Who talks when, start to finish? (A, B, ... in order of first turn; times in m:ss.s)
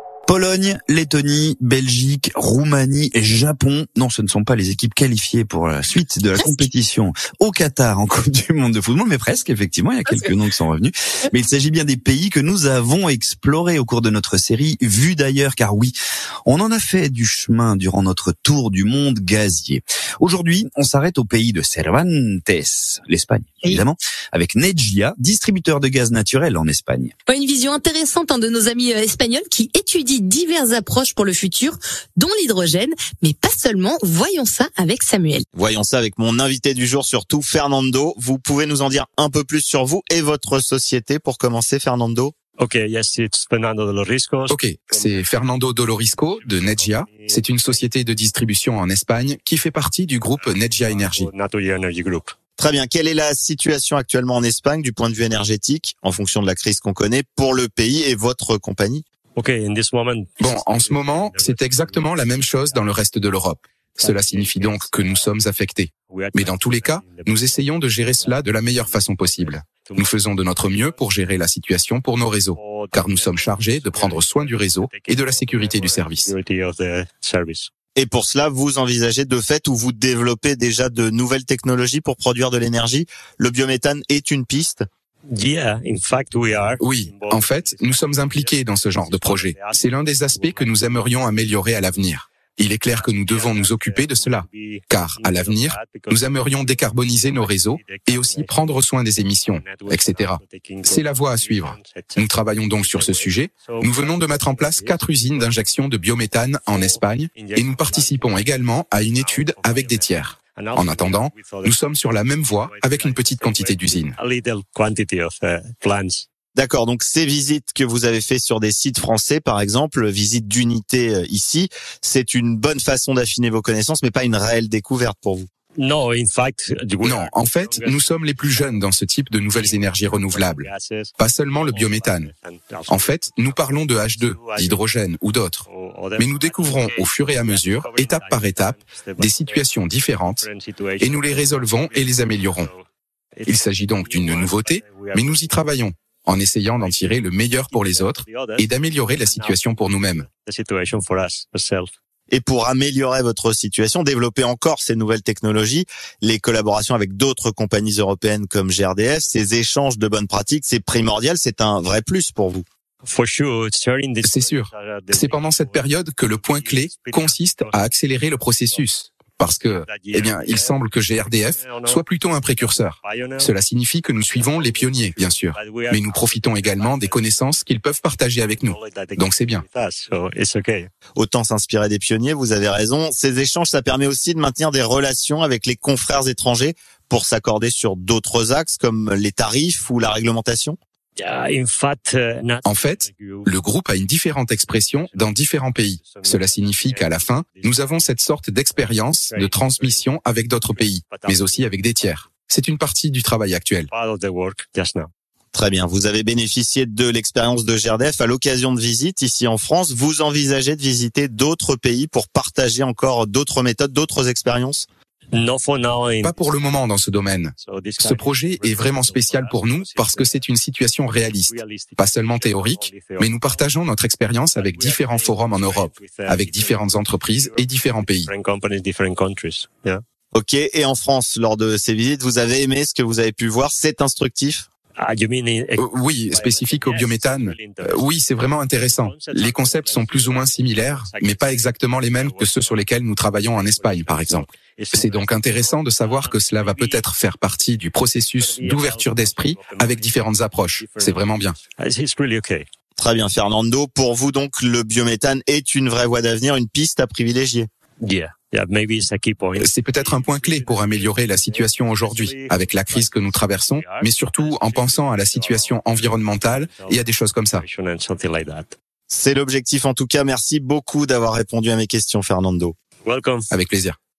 0:00.3-0:16.0 A
0:16.5-0:27.1 A
0:27.3-0:35.5 B
0:35.5-0:42.3 C
0:42.6-0:47.9 D
0:44.5-0:51.3 E
0:50.4-0:52.3 D
0:52.6-0:59.0 C
0:59.4-1:03.0 D
1:00.4-1:16.3 E
1:04.0-1:05.3 D
1:06.0-1:11.1 D
1:12.5-1:17.7 D
1:18.0-1:24.9 C
1:25.3-1:31.7 D
1:26.8-1:54.2 E
1:32.9-1:45.8 D
1:46.6-1:56.2 D
1:56.6-2:05.5 C
2:05.8-2:08.8 D
2:07.0-2:12.3 E
2:09.5-2:14.9 D
2:12.9-2:15.7 E
2:15.6-2:19.7 D
2:16.2-2:20.5 E
2:20.4-2:22.8 D
2:21.0-2:22.7 E
2:23.4-2:25.7 D
2:23.5-2:30.2 E
2:26.8-2:31.9 D
2:32.3-2:42.6 C
2:43.0-2:47.7 D
2:44.2-2:59.6 E
2:48.6-2:48.9 D
2:49.8-2:53.7 D
2:54.2-2:57.4 D
2:58.4-3:00.9 D
3:01.2-3:10.8 C
3:11.2-3:13.5 D
3:12.6-3:23.9 E
3:14.7-3:18.2 D
3:18.8-3:22.4 D
3:23.9-3:25.1 D
3:25.5-3:34.9 C
3:35.3-3:36.4 D
3:36.2-3:48.3 E
3:37.6-3:40.4 D
3:41.4-3:43.7 D
3:44.6-3:50.0 D
3:50.3-3:54.7 C
3:55.0-4:07.1 D
3:55.8-4:11.6 E
4:08.4-4:12.6 D
4:13.0-4:17.7 C
4:18.0-4:28.8 D
4:19.6-4:27.6 E
4:29.1-4:32.8 C
4:33.0-4:33.5 D
4:33.5-4:34.0 E